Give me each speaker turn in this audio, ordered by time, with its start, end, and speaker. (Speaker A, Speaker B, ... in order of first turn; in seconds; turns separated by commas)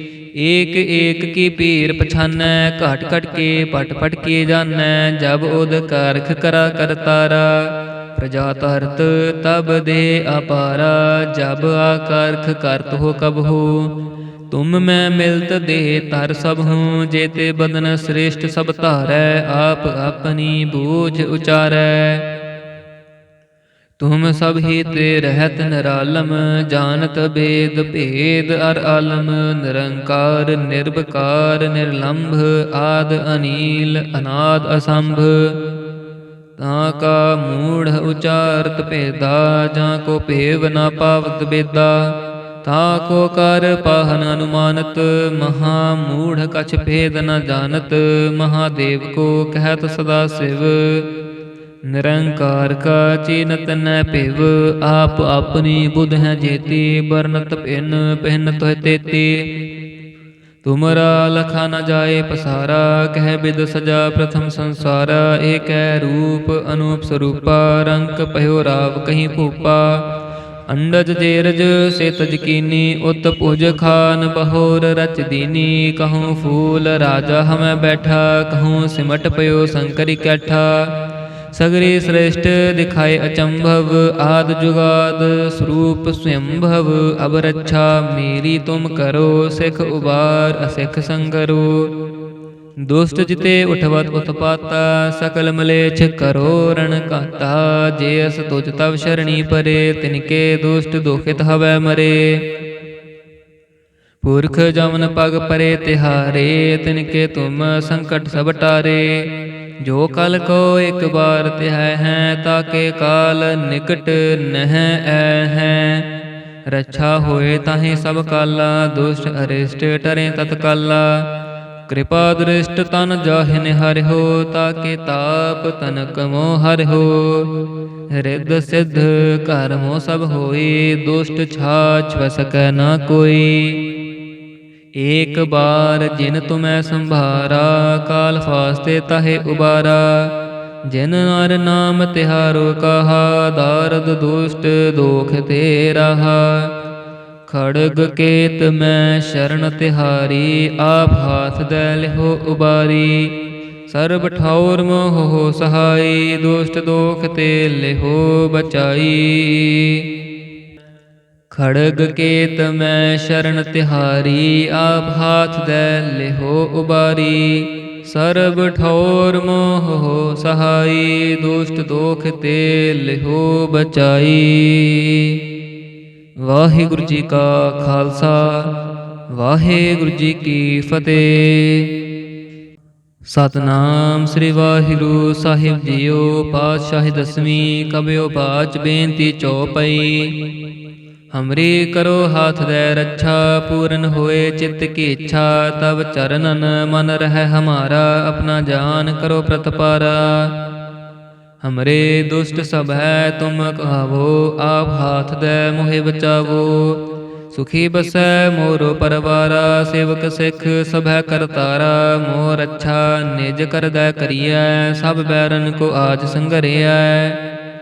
Speaker A: 0.4-13.9, Speaker A: 14.5-22.2, Speaker A: 24.0-35.5, Speaker A: 36.6-51.1, Speaker A: 51.9-59.5, Speaker A: 60.6-70.0, Speaker A: 70.7-80.9, Speaker A: 81.5-91.9, Speaker A: 92.8-102.4, Speaker A: 104.2-109.3, Speaker A: 109.8-116.1, Speaker A: 116.7-121.3, Speaker A: 121.9-127.5, Speaker A: 128.1-133.8, Speaker A: 135.0-140.3, Speaker A: 140.9-146.7, Speaker A: 147.5-153.3, Speaker A: 153.9-160.0, Speaker A: 161.5-175.4, Speaker A: 176.4-178.7, Speaker A: 179.3-181.9, Speaker A: 183.3-190.3, Speaker A: 191.3-200.5, Speaker A: 201.6-217.4